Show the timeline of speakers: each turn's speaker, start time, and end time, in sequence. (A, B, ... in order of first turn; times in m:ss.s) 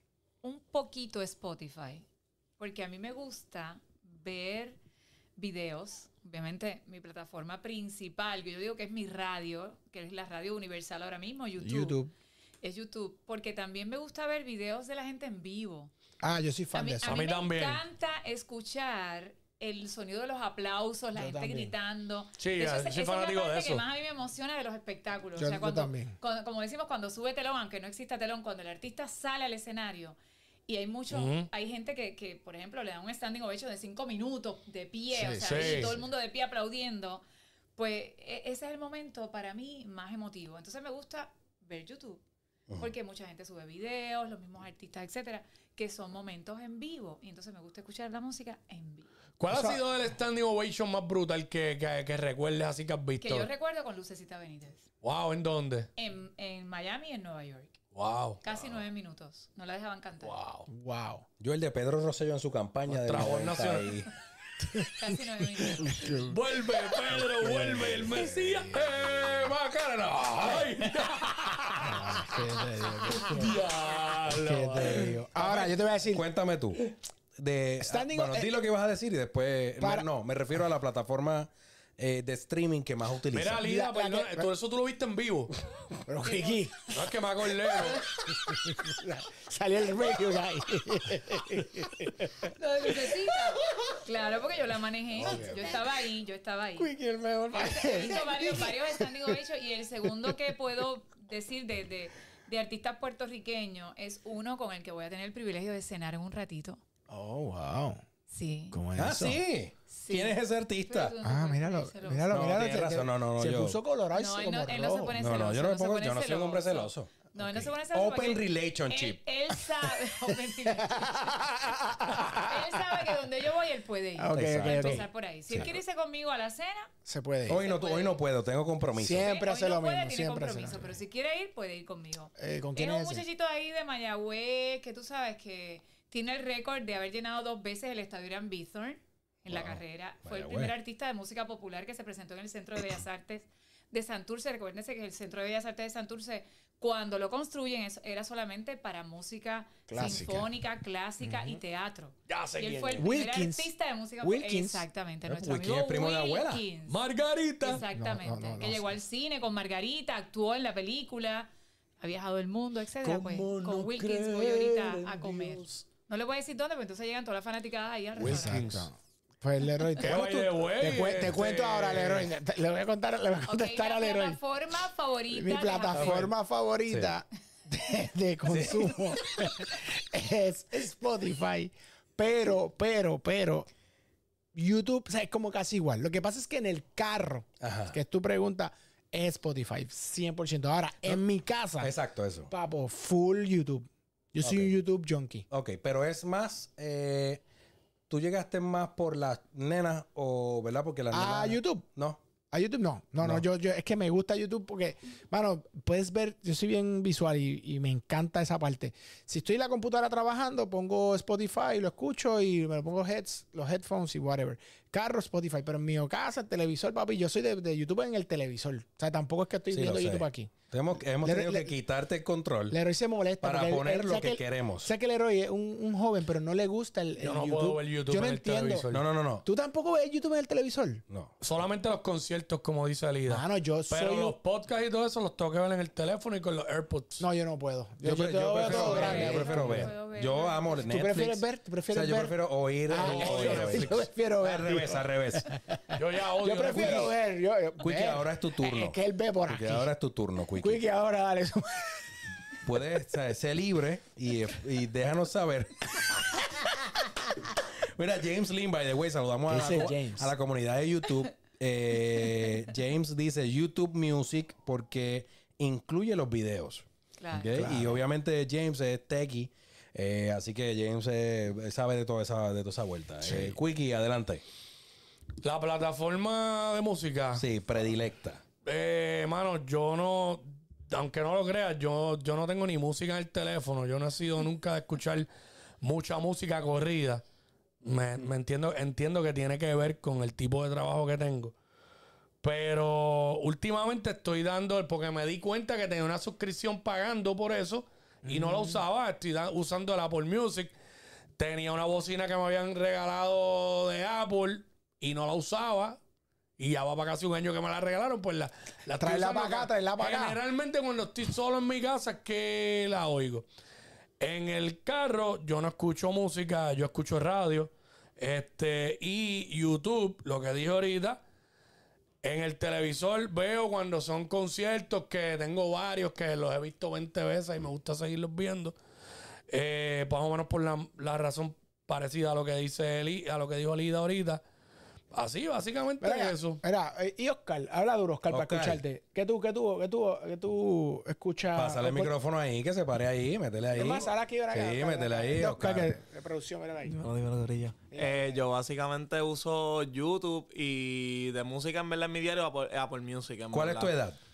0:00.4-0:02.0 A
0:02.6-0:04.8 A
0:05.4-0:12.0 A
0:11.6-0:12.1 B
0:12.6-0:15.9 A
0:16.2-0:17.2 B
0:16.7-0:37.2 A
0:17.0-0:17.8 C
0:21.1-0:21.7 B
0:22.4-0:23.8 C
0:25.4-0:26.2 B
0:31.1-0:31.5 C
0:35.1-0:36.0 B
0:35.4-0:36.0 C
0:37.8-0:42.2 A
0:42.8-0:49.1 A
0:49.4-0:53.5 C
0:49.5-0:49.8 B
0:53.2-0:54.8 A
0:55.0-0:55.9 C
0:56.0-0:57.8 A
0:57.9-0:58.4 C
0:58.4-1:00.4 A
1:00.2-1:00.7 C
1:00.7-1:01.2 B
1:01.4-1:04.1 D
1:02.9-1:03.9 C
1:04.9-1:06.0 A
1:05.8-1:12.3 C
1:05.8-1:06.4 B
1:07.0-1:09.2 B
1:11.8-1:13.6 B
1:13.1-1:15.8 C
1:14.3-1:16.2 B
1:14.8-1:15.1 D
1:16.0-1:23.6 D
1:17.8-1:18.5 B
1:19.8-1:20.1 B
1:23.3-1:25.5 C
1:23.6-1:24.5 B
1:26.0-1:26.9 B
1:26.8-1:28.1 C
1:27.8-1:34.0 B
1:32.5-1:36.9 A
1:35.2-1:35.8 B
1:36.9-1:39.4 B
1:37.5-1:46.8 A
1:47.1-1:48.0 B
1:48.3-1:48.8 A
1:48.7-1:49.4 B
1:49.0-1:51.1 D
1:49.9-1:52.5 A
1:51.2-1:55.2 B
1:52.3-1:53.8 D
1:54.1-2:01.3 A
1:55.1-1:57.2 D
1:57.4-1:57.7 B
1:57.9-1:59.2 D
2:00.8-2:02.7 B
2:02.3-2:06.9 A
2:04.2-2:05.7 B
2:04.3-2:05.0 D
2:07.0-2:07.6 B
2:07.5-2:09.3 D
2:07.5-2:08.2 A
2:09.0-2:11.0 B
2:09.2-2:37.0 A
2:12.4-2:13.2 B
2:19.5-2:20.7 D
2:29.9-2:30.5 B
2:31.2-2:31.6 B
2:32.3-2:33.0 C
2:33.0-2:34.8 B
2:35.3-2:36.6 D
2:36.9-2:37.8 C
2:37.6-2:41.5 A
2:37.9-2:38.9 B
2:42.0-2:48.7 A
2:43.0-2:45.8 D
2:48.2-2:48.9 C
2:48.2-2:54.4 B
2:50.0-2:52.3 C
2:53.5-2:56.2 A
2:55.3-3:03.7 B
2:55.9-2:56.3 C
2:56.9-2:57.2 D
2:58.4-2:58.9 D
3:04.5-3:11.9 B
3:07.6-3:08.0 D
3:11.8-3:12.5 D
3:12.5-3:15.4 B
3:14.4-3:14.7 D
3:15.5-3:17.4 D
3:18.1-3:22.2 D
3:21.1-3:21.8 B
3:22.5-3:40.5 B
3:39.7-3:42.8 D
3:41.2-3:41.7 B
3:42.7-3:48.8 B
3:43.4-3:44.9 D
3:47.2-3:49.0 C
3:48.9-3:49.4 D
3:49.4-3:51.0 B
3:51.4-3:57.2 C
3:53.3-3:54.3 B
3:57.2-3:59.9 B
3:58.0-4:05.5 D
3:58.6-3:59.6 C
3:58.7-4:01.0 A
4:00.9-4:02.3 B
4:02.9-4:09.9 B
4:03.0-4:04.1 C
4:05.9-4:07.1 C
4:06.7-4:07.1 D
4:07.8-4:10.8 D
4:10.6-4:12.0 B
4:12.6-4:16.4 D
4:17.8-4:34.4 D
4:19.5-4:20.3 B
4:27.2-4:27.6 A
4:27.5-4:28.0 B
4:33.2-4:33.6 B
4:35.4-4:37.4 C
4:37.4-4:38.4 D
4:38.6-4:45.3 C
4:45.8-4:47.2 C
4:47.8-4:51.5 C
4:52.4-5:00.7 C
4:58.2-4:58.8 B
5:01.4-5:06.0 C
5:06.6-5:13.5 C
5:09.0-5:10.4 B
5:14.2-5:21.2 C
5:22.2-5:28.7 C
5:29.5-5:34.4 C
5:35.1-5:36.6 C
5:36.0-5:42.1 B
5:38.3-5:38.8 D
5:41.5-5:45.9 D
5:43.7-5:47.1 B
5:47.0-5:53.9 E
5:47.9-5:48.4 B
5:53.5-5:54.2 D